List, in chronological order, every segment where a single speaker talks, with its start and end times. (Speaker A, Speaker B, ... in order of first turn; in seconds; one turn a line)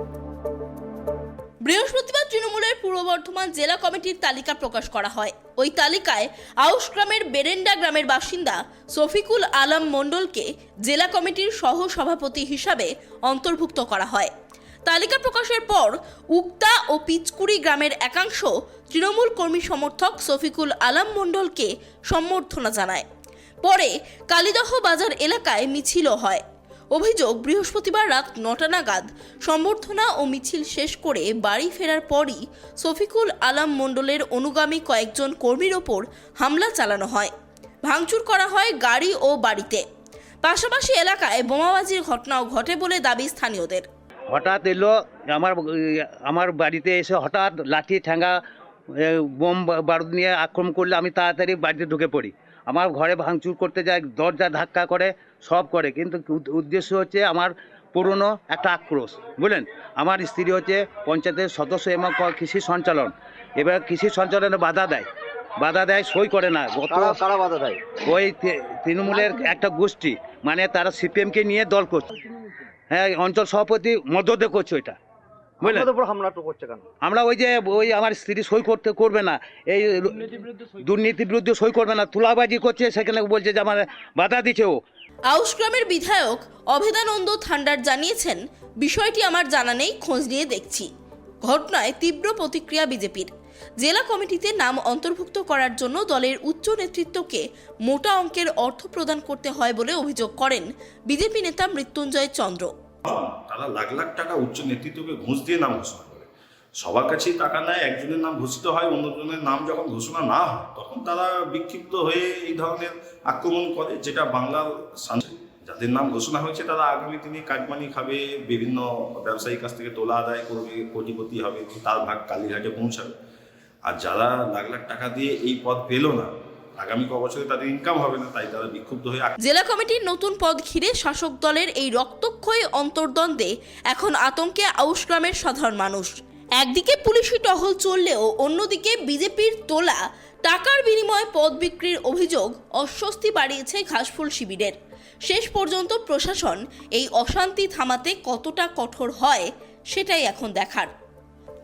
Speaker A: 1.7-14.3
Speaker A: 14.9-23.1
Speaker A: 23.6-37.3
Speaker A: 37.9-39.8
Speaker A: 40.4-43.9
Speaker B: 44.3-48.4
Speaker B: 48.9-65.1
Speaker B: 65.6-67.2
Speaker C: 66.9-67.9
Speaker B: 68.0-72.1
Speaker B: 72.9-75.0
Speaker B: 75.6-75.9
Speaker C: 75.6-76.8
Speaker B: 77.0-84.8
Speaker A: 85.3-90.9
Speaker A: 91.5-102.7
Speaker D: 103.1-106.3
Speaker D: 106.8-123.1
Speaker D: 123.9-129.3
Speaker A: 129.4-144.8
Speaker A: 145.3-150.9